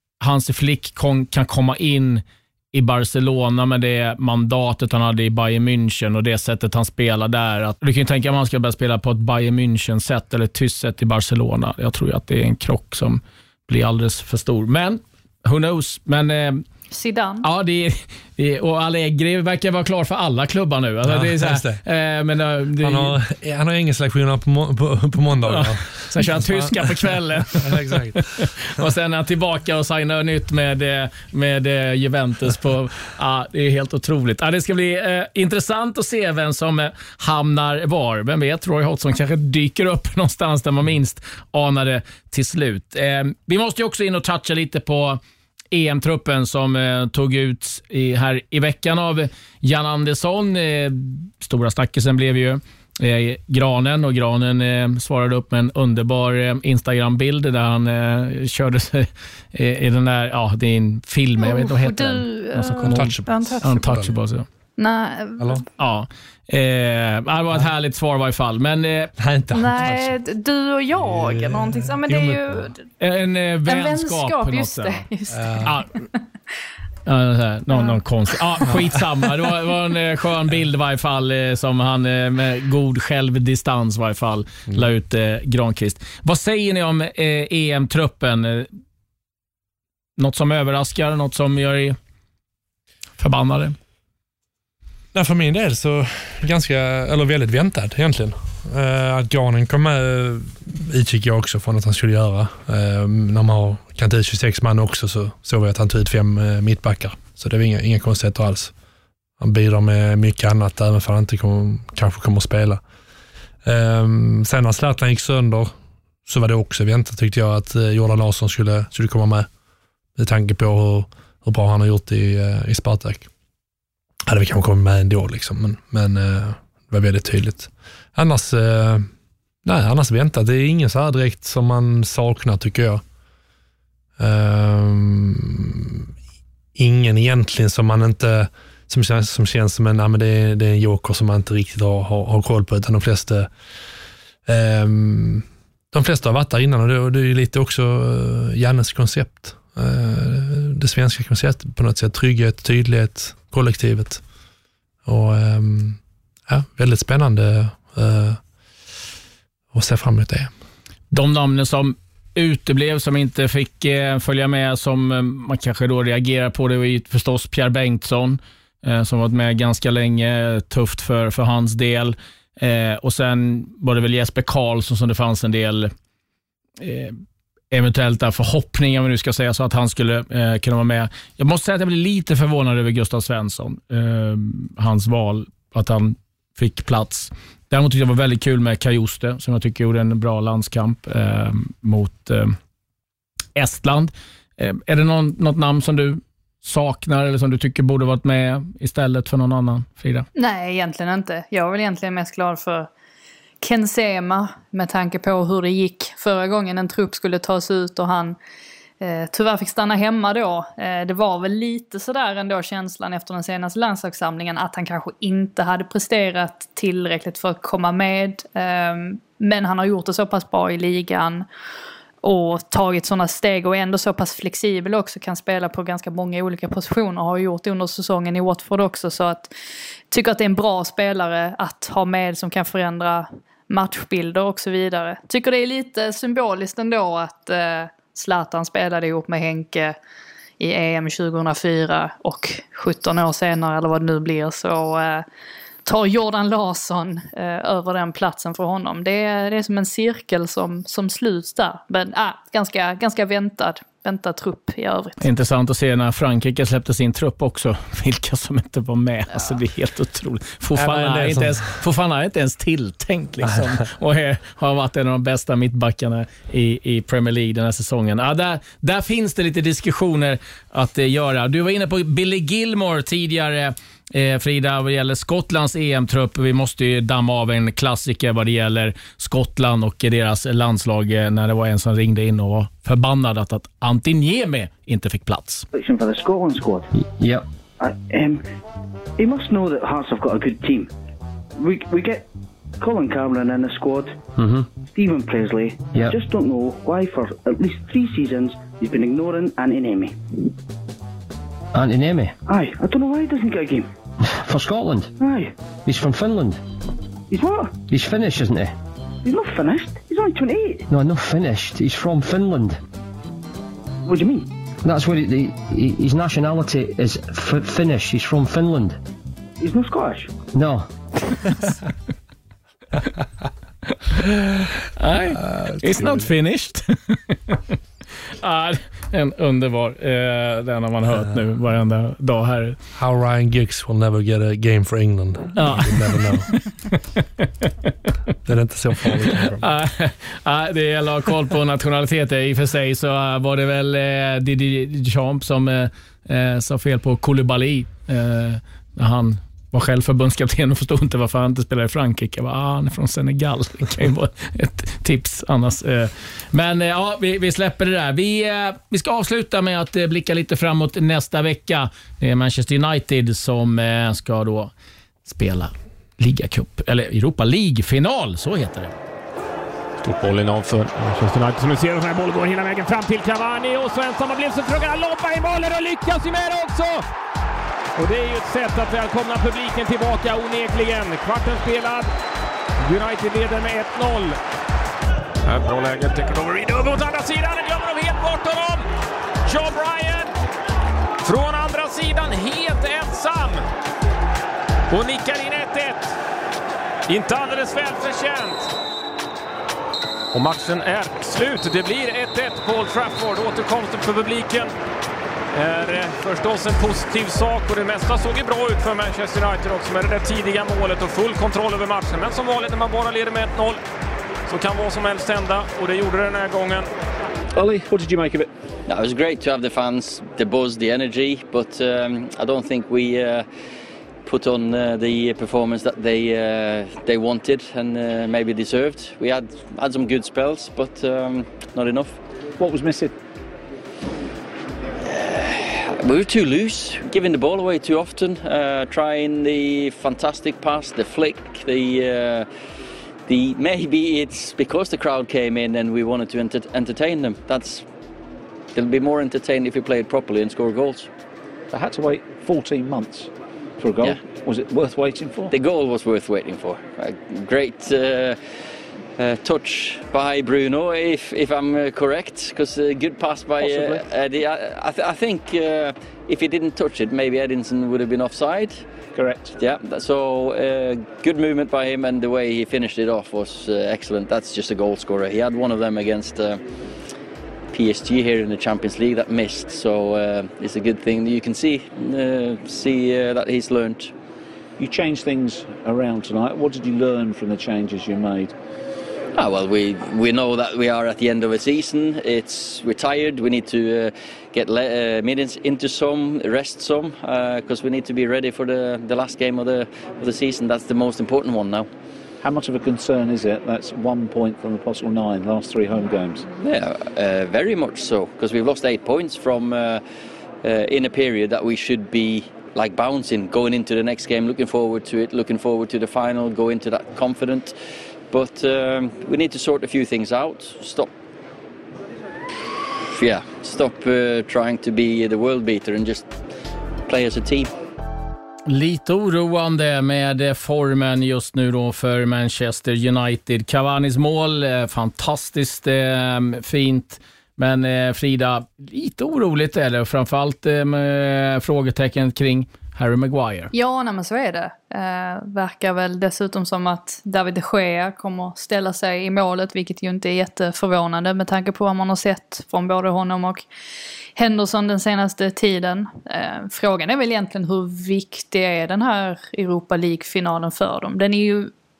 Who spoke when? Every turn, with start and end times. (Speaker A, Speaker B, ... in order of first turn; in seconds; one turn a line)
Speaker A: 0.2-16.6
Speaker B: 16.9-17.4
Speaker A: 17.4-23.1
Speaker C: 21.0-21.8
Speaker C: 22.8-28.5
Speaker A: 25.4-45.2
Speaker A: 45.7-64.5
Speaker B: 61.4-63.7
Speaker C: 62.9-64.1
Speaker B: 64.8-65.6
Speaker C: 65.4-65.7
Speaker A: 65.8-69.1
Speaker C: 69.2-70.1
Speaker B: 69.5-72.8
Speaker C: 70.9-72.7
Speaker A: 73.0-75.0
Speaker B: 73.7-75.7
Speaker C: 75.3-75.8
Speaker A: 77.0-88.7
Speaker B: 77.7-78.0
Speaker A: 90.2-92.0
Speaker A: 93.2-93.8
Speaker C: 95.1-108.7
Speaker C: 109.4-112.8
Speaker C: 113.6-115.7
Speaker C: 116.2-119.5
Speaker C: 120.2-123.3
Speaker C: 124.3-129.1
Speaker C: 129.6-133.0
Speaker C: 134.2-136.1
Speaker C: 136.7-143.5
Speaker C: 144.4-154.2
Speaker C: 155.0-158.4
Speaker C: 159.7-160.5
Speaker A: 161.1-175.9
Speaker A: 176.8-177.2
Speaker A: 177.7-192.6
Speaker A: 193.6-200.2
Speaker B: 200.3-202.9
Speaker B: 203.6-208.4
Speaker B: 209.0-221.4
Speaker B: 222.2-229.5
Speaker B: 230.1-239.9
Speaker B: 240.6-245.2
Speaker B: 245.8-255.2
Speaker A: 255.2-285.6
Speaker C: 260.8-261.6
Speaker D: 285.7-286.9
Speaker E: 286.9-287.4
Speaker D: 287.8-288.4
Speaker D: 289.2-290.9
Speaker D: 291.6-292.2
Speaker D: 292.8-294.2
Speaker E: 294.4-294.7
Speaker D: 294.8-300.4
Speaker E: 301.7-302.3
Speaker D: 302.5-303.9
Speaker E: 304.4-305.1
Speaker D: 305.2-305.5
Speaker E: 305.9-306.6
Speaker D: 307.3-307.8
Speaker E: 307.9-308.7
Speaker D: 309.2-310.8
Speaker E: 310.9-312.8
Speaker D: 314.1-314.5
Speaker E: 314.8-319.0
Speaker D: 319.6-320.4
Speaker E: 320.5-320.9
Speaker A: 324.9-327.7
Speaker C: 325.5-326.3
Speaker A: 328.4-332.8
Speaker C: 332.9-336.5
Speaker A: 335.6-337.9
Speaker C: 338.4-339.7
Speaker A: 339.3-364.7
Speaker A: 365.2-368.9
Speaker F: 370.0-377.1
Speaker F: 378.0-382.1
Speaker F: 382.8-384.4
Speaker F: 385.4-388.9
Speaker F: 389.4-390.3
Speaker F: 391.2-393.6
Speaker F: 394.9-396.1
Speaker F: 397.1-398.7
Speaker F: 400.3-404.7
Speaker F: 405.5-413.8
Speaker F: 414.5-416.9
Speaker G: 417.5-418.5
Speaker H: 418.9-423.4
Speaker H: 424.2-432.2
Speaker G: 432.6-433.1
Speaker H: 435.1-442.5
Speaker H: 443.3-447.8
Speaker H: 448.8-451.1
Speaker G: 451.7-455.5
Speaker H: 455.5-458.4
Speaker H: 459.2-468.8
Speaker G: 463.6-464.1
Speaker G: 469.1-469.6
Speaker H: 469.6-476.6
Speaker H: 477.7-484.1
Speaker G: 484.8-488.5
Speaker H: 489.3-501.9
Speaker G: 502.4-506.5
Speaker H: 506.6-510.0
Speaker H: 510.6-517.8
Speaker H: 518.3-521.1
Speaker H: 523.1-526.3
Speaker H: 527.1-527.7
Speaker A: 528.7-543.7
Speaker B: 543.7-553.6
Speaker B: 554.4-561.7